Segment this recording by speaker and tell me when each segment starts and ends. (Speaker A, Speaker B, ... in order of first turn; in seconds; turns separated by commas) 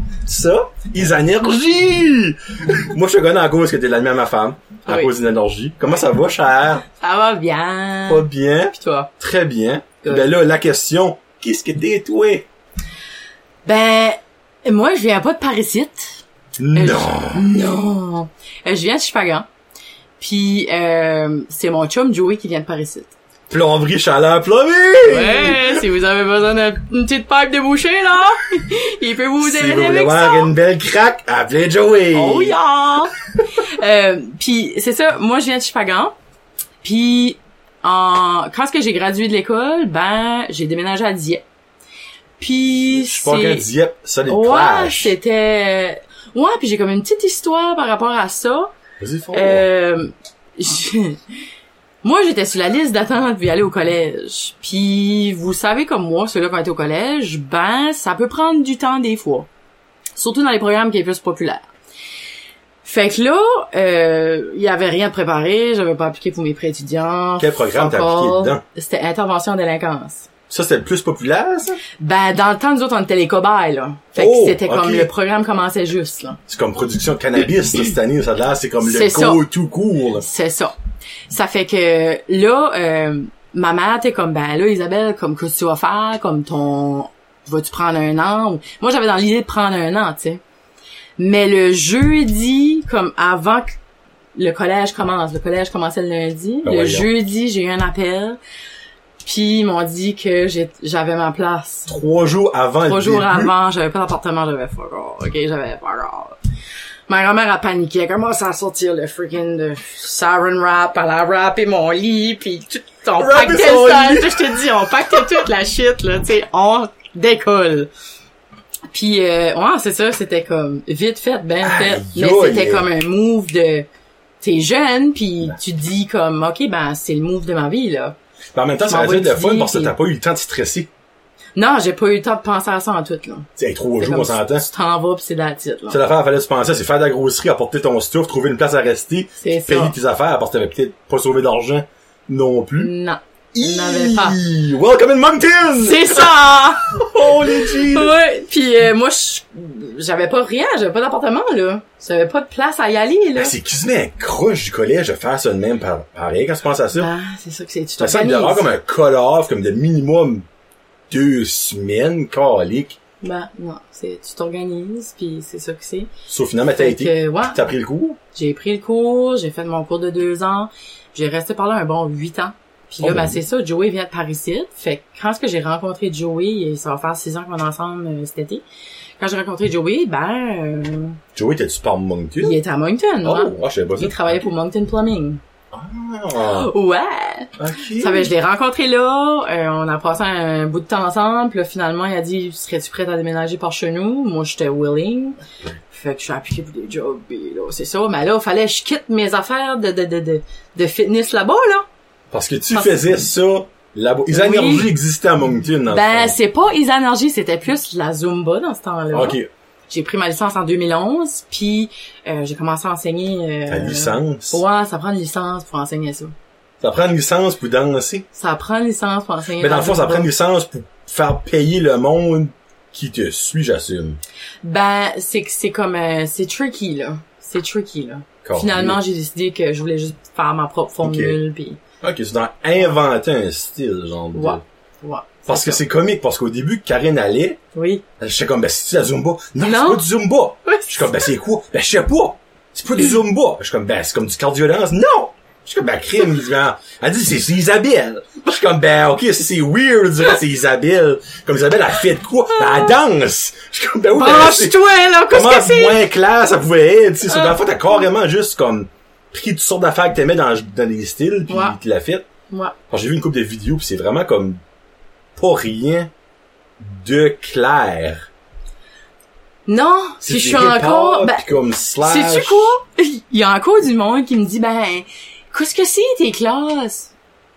Speaker A: 0.2-6.8, Speaker B: 4.9-5.1, Speaker B: 7.0-9.1, Speaker A: 8.1-12.5, Speaker B: 13.7-16.2, Speaker A: 16.6-17.8, Speaker B: 16.7-19.5, Speaker B: 20.2-23.1, Speaker A: 23.5-25.8, Speaker B: 25.1-30.5, Speaker A: 29.4-32.6, Speaker B: 32.1-36.1, Speaker B: 36.8-41.4, Speaker B: 42.4-43.7, Speaker A: 42.9-45.1, Speaker B: 44.3-48.7, Speaker A: 49.0-49.7, Speaker B: 49.3-51.2, Speaker B: 52.0-59.5, Speaker B: 60.2-61.6, Speaker B: 62.8-70.3, Speaker A: 67.4-68.6, Speaker A: 70.5-71.8, Speaker B: 72.0-76.4, Speaker A: 74.2-75.1, Speaker A: 76.5-80.3, Speaker B: 78.8-79.4, Speaker B: 80.2-80.8, Speaker B: 81.3-90.4, Speaker B: 91.2-93.8, Speaker B: 94.4-98.4, Speaker A: 96.6-97.1, Speaker B: 99.2-101.9, Speaker A: 101.9-103.5, Speaker B: 102.8-106.4, Speaker B: 107.1-117.9, Speaker A: 113.2-114.6, Speaker B: 118.9-123.9, Speaker A: 121.6-122.9, Speaker B: 124.4-128.2, Speaker A: 128.5-130.9, Speaker B: 128.9-129.9, Speaker B: 131.6-133.5, Speaker A: 133.6-134.7, Speaker B: 134.0-136.0, Speaker A: 135.9-142.9, Speaker B: 139.4-139.9, Speaker B: 142.8-144.4, Speaker A: 143.5-148.1, Speaker B: 145.8-153.6, Speaker A: 153.4-157.1, Speaker B: 156.9-158.7, Speaker A: 158.0-160.4, Speaker A: 161.1-163.0, Speaker B: 163.2-166.1, Speaker A: 166.3-168.2, Speaker B: 166.7-167.6, Speaker B: 168.3-178.6, Speaker A: 173.0-173.4, Speaker B: 179.2-181.2, Speaker A: 181.3-182.6, Speaker B: 182.4-185.4, Speaker A: 183.2-184.4, Speaker A: 185.7-186.7, Speaker B: 186.4-201.9, Speaker A: 187.6-188.3, Speaker A: 202.3-206.4, Speaker B: 202.7-203.1, Speaker B: 204.3-204.9, Speaker B: 205.9-209.4, Speaker A: 209.1-209.5, Speaker B: 209.9-216.3, Speaker A: 213.7-214.6, Speaker A: 216.8-218.3, Speaker B: 218.3-220.3, Speaker A: 219.6-224.2, Speaker B: 224.6-231.8, Speaker A: 228.4-229.0, Speaker A: 231.0-231.4, Speaker A: 232.0-234.6, Speaker B: 234.3-235.8, Speaker A: 235.5-237.6, Speaker B: 237.8-238.0, Speaker A: 238.2-262.3, Speaker B: 239.6-240.1, Speaker B: 240.7-241.3, Speaker B: 252.6-252.9, Speaker B: 254.1-256.0, Speaker B: 257.3-257.8, Speaker B: 261.5-261.8, Speaker B: 262.5-262.8, Speaker A: 262.9-264.6, Speaker A: 265.4-266.1, Speaker A: 266.8-268.3, Speaker B: 269.7-271.4, Speaker A: 270.2-272.8, Speaker B: 272.0-277.1